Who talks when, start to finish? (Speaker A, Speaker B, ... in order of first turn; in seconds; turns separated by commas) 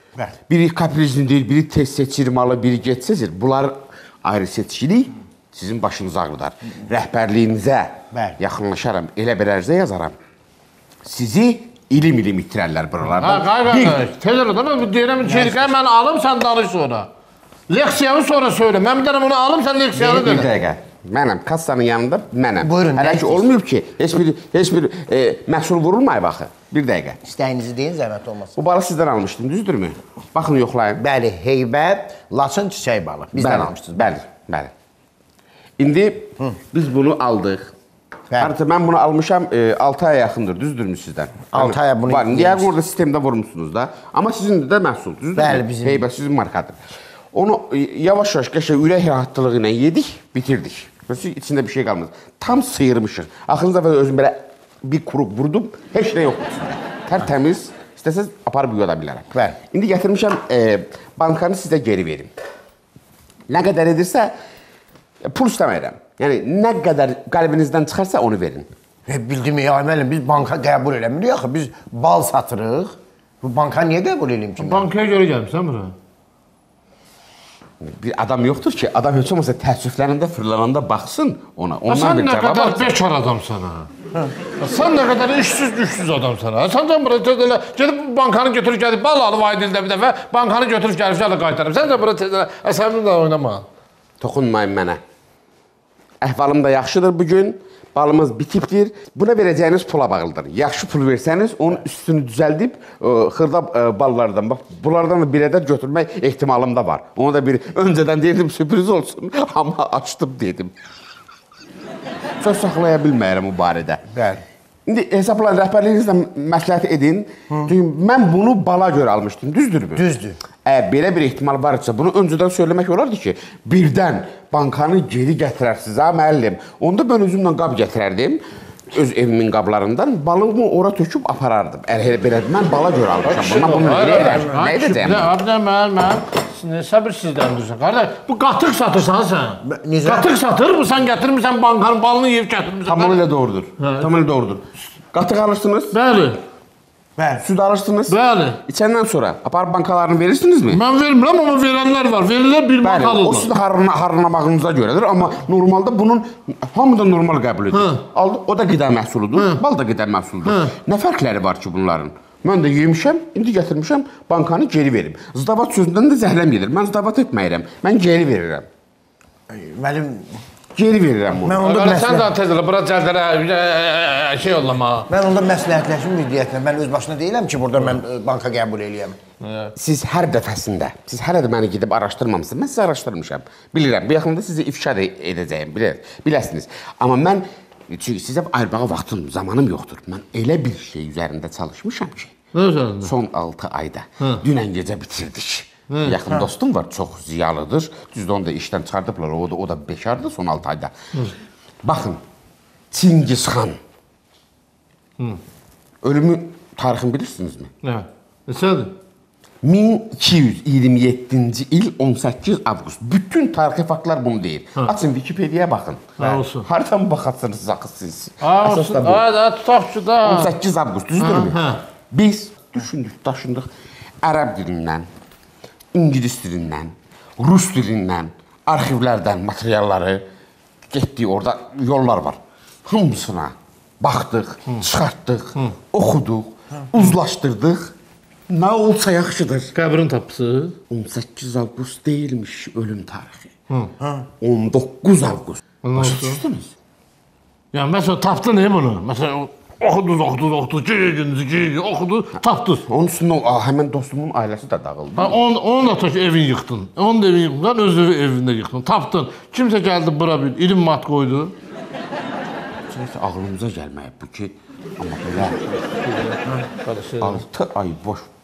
Speaker A: 0.5-10.2, Speaker B: 8.1-8.4, Speaker A: 11.1-14.0, Speaker C: 13.2-17.1, Speaker B: 15.3-15.6, Speaker C: 17.7-20.5, Speaker A: 20.0-27.2, Speaker B: 22.6-23.5, Speaker B: 27.2-28.5, Speaker A: 28.6-31.0, Speaker B: 31.0-34.0, Speaker A: 33.4-34.7, Speaker A: 35.8-37.7, Speaker A: 38.4-46.8, Speaker B: 41.5-42.7, Speaker B: 45.4-46.1, Speaker A: 47.3-62.3, Speaker A: 63.5-64.3, Speaker A: 65.2-68.7, Speaker B: 69.1-74.9, Speaker C: 74.6-75.9, Speaker A: 77.8-82.9, Speaker C: 81.9-83.9, Speaker C: 84.6-93.7, Speaker A: 94.2-95.0, Speaker A: 96.2-110.7, Speaker A: 112.4-114.0, Speaker B: 114.1-114.4, Speaker A: 114.9-120.0, Speaker B: 120.0-120.4, Speaker A: 120.7-135.3, Speaker C: 133.2-143.2, Speaker B: 139.6-140.3, Speaker A: 142.9-145.9, Speaker C: 143.8-144.1, Speaker C: 145.9-146.4, Speaker B: 147.2-147.4, Speaker A: 147.4-150.8, Speaker C: 148.1-148.6, Speaker C: 150.7-153.5, Speaker A: 152.8-168.7, Speaker C: 157.7-158.0, Speaker C: 159.4-159.6, Speaker C: 160.4-160.8, Speaker B: 169.5-170.3, Speaker A: 170.8-171.7, Speaker B: 171.4-172.3, Speaker C: 171.6-175.1, Speaker B: 175.1-179.2, Speaker C: 179.4-179.7, Speaker A: 179.8-192.3, Speaker C: 192.5-193.1, Speaker A: 193.0-200.9, Speaker C: 195.9-196.2, Speaker A: 201.8-202.2, Speaker A: 202.9-203.8, Speaker A: 206.0-207.7, Speaker C: 207.8-208.9, Speaker A: 209.6-219.2, Speaker C: 216.2-216.7, Speaker C: 218.4-220.5, Speaker A: 220.2-221.6, Speaker C: 221.2-221.8, Speaker A: 222.1-223.7, Speaker A: 224.2-225.1, Speaker A: 225.9-230.2, Speaker A: 230.9-237.9, Speaker A: 238.5-239.7, Speaker C: 239.7-240.8, Speaker A: 240.9-243.5, Speaker B: 244.0-244.3, Speaker A: 244.4-246.7, Speaker C: 245.8-246.4, Speaker C: 247.7-252.8, Speaker A: 252.9-255.4, Speaker C: 255.2-261.6, Speaker A: 262.9-265.6, Speaker C: 266.0-267.4, Speaker A: 267.2-268.3